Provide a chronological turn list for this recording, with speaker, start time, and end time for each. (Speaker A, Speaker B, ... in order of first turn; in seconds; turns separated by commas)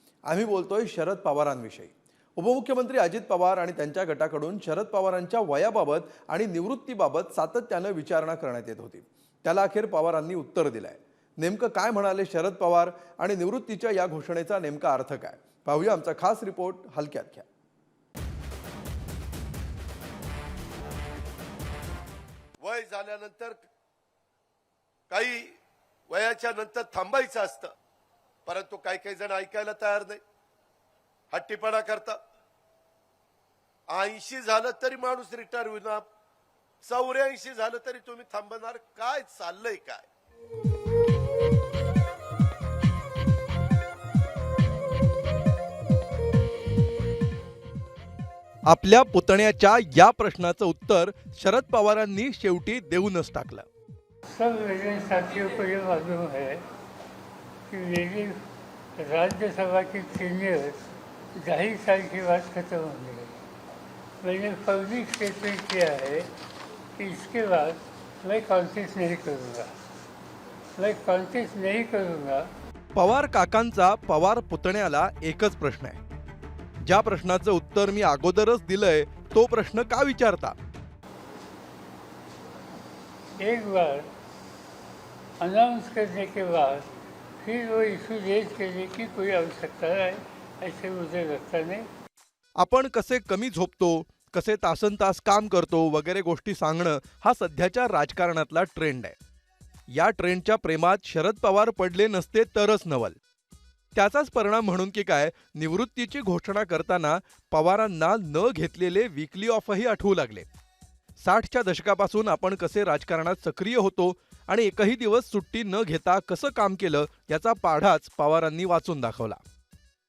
Speaker A: 0.3-17.5, Speaker B: 22.6-23.7, Speaker B: 25.1-25.5, Speaker B: 26.1-27.7, Speaker B: 28.5-30.2, Speaker B: 31.3-32.2, Speaker B: 33.9-36.0, Speaker B: 36.8-40.1, Speaker A: 48.7-53.7, Speaker C: 54.3-56.6, Speaker C: 57.7-58.4, Speaker C: 59.0-63.4, Speaker C: 64.2-66.3, Speaker C: 67.0-69.7, Speaker C: 70.8-72.5, Speaker A: 73.0-76.0, Speaker A: 76.8-80.6, Speaker C: 83.4-84.1, Speaker C: 85.4-86.9, Speaker C: 87.4-91.9, Speaker A: 92.6-99.2, Speaker A: 99.9-103.2, Speaker A: 104.0-110.5, Speaker A: 111.2-119.4